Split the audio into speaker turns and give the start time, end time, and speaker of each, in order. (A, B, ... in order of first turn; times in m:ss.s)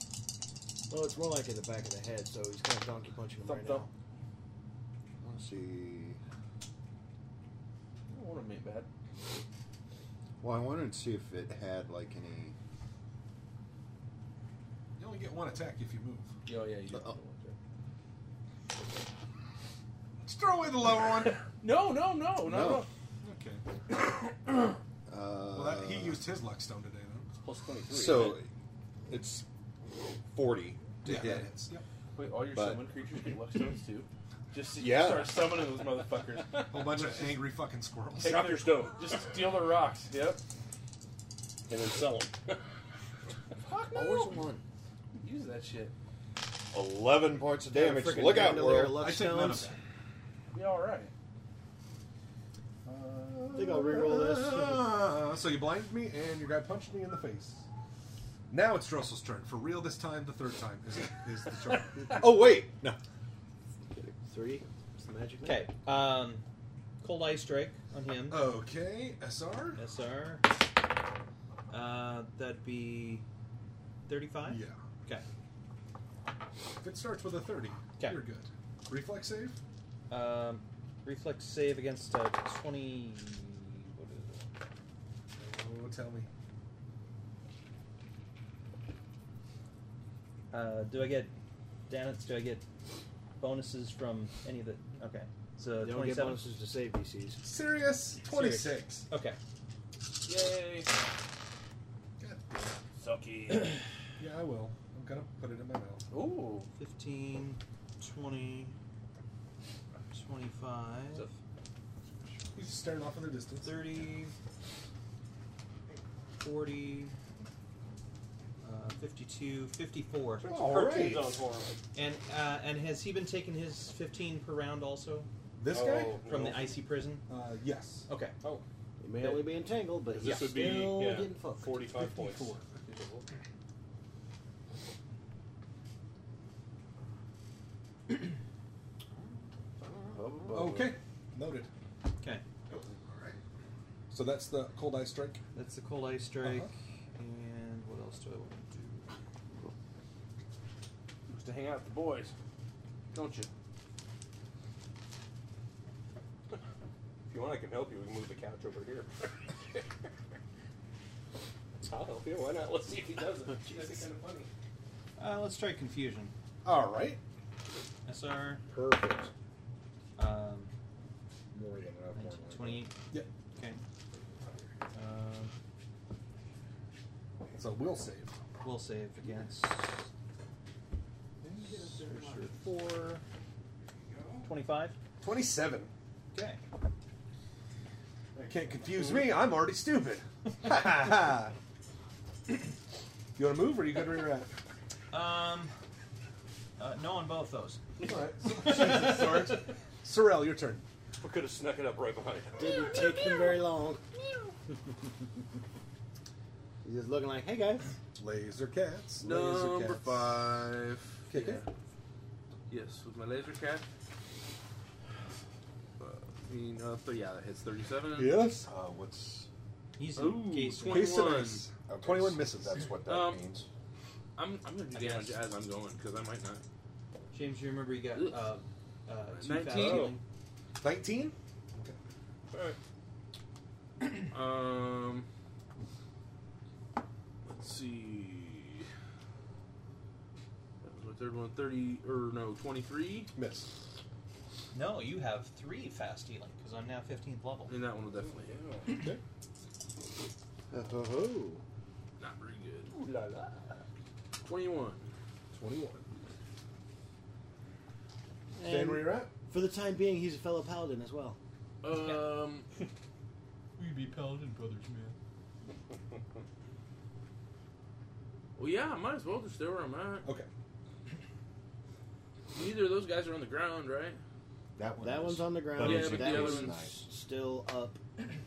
0:00.9-0:03.9 A
0:03.4-0:03.9 B
0:05.2-0:06.2 C
0:08.1-0:08.9 B
0:10.4-0:12.6 C
0:15.0-0:16.3 D
0:16.5-0:17.6 B
0:20.2-0:21.4 D
0:21.6-0:22.9 B
0:22.4-0:22.9 C
0:23.2-0:23.6 D
0:25.1-0:26.3 C
0:25.5-0:27.3 D
0:27.4-0:28.4 E
0:27.9-0:28.5 C
0:29.1-0:29.4 C
0:30.3-0:31.6 C
0:31.0-0:31.8 D
0:32.2-0:37.3 B
0:32.5-0:32.9 C
0:34.7-0:35.6 C
0:36.7-0:38.6 D
0:36.9-0:37.1 E
0:38.2-0:39.1 E
0:38.2-0:40.4 B
0:41.7-0:42.6 E
0:43.7-0:44.4 B
0:43.7-0:44.6 C
0:45.2-0:45.9 B
0:46.7-0:49.0 C
0:47.7-0:49.0 F
0:48.1-0:49.7 A
0:49.0-0:49.8 D
0:50.5-0:51.1 B
0:52.9-0:57.6 D
0:53.6-0:55.0 A
0:58.5-1:02.6 D
1:02.1-1:03.0 C
1:03.9-1:05.7 A
1:05.4-1:06.4 F
1:07.0-1:08.5 F
1:08.3-1:09.8 D
1:09.8-1:10.5 F
1:11.7-1:13.2 F
1:14.1-1:15.2 F
1:14.4-1:14.8 D
1:16.8-1:19.6 D
1:20.1-1:24.5 F
1:25.4-1:26.3 D
1:30.5-1:31.3 F
1:31.9-1:32.6 F
1:33.4-1:36.5 F
1:35.8-1:37.4 A
1:37.4-1:39.1 D
1:38.2-1:39.4 F
1:40.2-1:40.9 B
1:42.2-1:42.8 D
1:43.0-1:43.8 E
1:44.2-1:46.1 D
1:46.1-1:46.7 B
1:46.8-1:48.8 F
1:50.1-1:51.3 F
1:52.5-1:53.9 D
1:53.6-1:54.4 F
1:56.4-1:57.2 F
1:58.6-2:00.5 F
2:00.4-2:01.8 E
2:00.4-2:01.4 D
2:02.0-2:05.3 F
2:05.6-2:06.2 D
2:05.7-2:06.8 E
2:06.2-2:07.3 F
2:07.3-2:08.1 D
2:08.1-2:08.4 F
2:09.0-2:12.6 A
2:10.1-2:12.6 E
2:20.2-2:20.9 E
2:20.5-2:21.7 D
2:22.7-2:23.4 C
2:24.1-2:25.4 D
2:25.5-2:29.1 F
2:26.4-2:26.7 D
2:31.3-2:32.3 B
2:33.1-2:33.5 B
2:37.3-2:39.1 E
2:41.8-2:44.5 E
2:45.2-2:46.3 F
2:46.6-2:47.2 D
2:48.1-2:48.6 F
2:48.7-2:49.3 G
2:50.2-2:50.7 F
2:51.5-2:52.9 G
2:52.1-2:53.0 F
2:53.6-2:53.8 F
2:54.9-2:55.5 F
2:57.5-2:58.4 D
2:58.6-3:00.0 F
3:01.8-3:03.2 F
3:04.4-3:05.0 F
3:05.2-3:05.9 D
3:06.3-3:06.6 F
3:08.4-3:11.5 D
3:13.4-3:14.5 D
3:15.1-3:15.7 F
3:16.8-3:19.5 F
3:18.0-3:20.8 D
3:21.2-3:22.9 E
3:22.6-3:24.0 A
3:26.8-3:28.0 A
3:28.2-3:30.1 D
3:29.2-3:31.7 B
3:31.3-3:31.6 D
3:32.7-3:33.9 B
3:36.0-3:38.6 B
3:38.5-3:39.5 C
3:40.0-3:41.3 F
3:40.2-3:41.7 B
3:40.8-3:42.8 D
3:41.8-3:43.7 C
3:43.0-3:43.4 B
3:44.4-3:46.6 B
3:44.9-3:45.4 F
3:47.3-3:50.2 F
3:48.2-3:48.5 B
3:49.4-3:50.2 B
3:49.7-3:50.2 E
3:50.8-3:52.0 D
3:52.5-3:52.8 E
3:54.0-3:55.3 B
3:57.4-3:58.9 B
4:00.8-4:03.3 B
4:03.3-4:03.7 D
4:04.7-4:07.8 F
4:07.7-4:08.6 B
4:08.1-4:09.0 E
4:08.9-4:09.2 D
4:10.7-4:11.6 A
4:12.2-4:13.0 B
4:13.0-4:13.6 E
4:14.4-4:15.1 B
4:15.5-4:16.0 D
4:18.6-4:21.4 A
4:18.6-4:19.3 D
4:21.8-4:22.7 B
4:21.9-4:22.2 F
4:23.8-4:25.1 B
4:28.6-4:30.3 B
4:32.5-4:34.2 B
4:34.8-4:37.1 C
4:35.0-4:38.4 A
4:35.8-4:36.8 B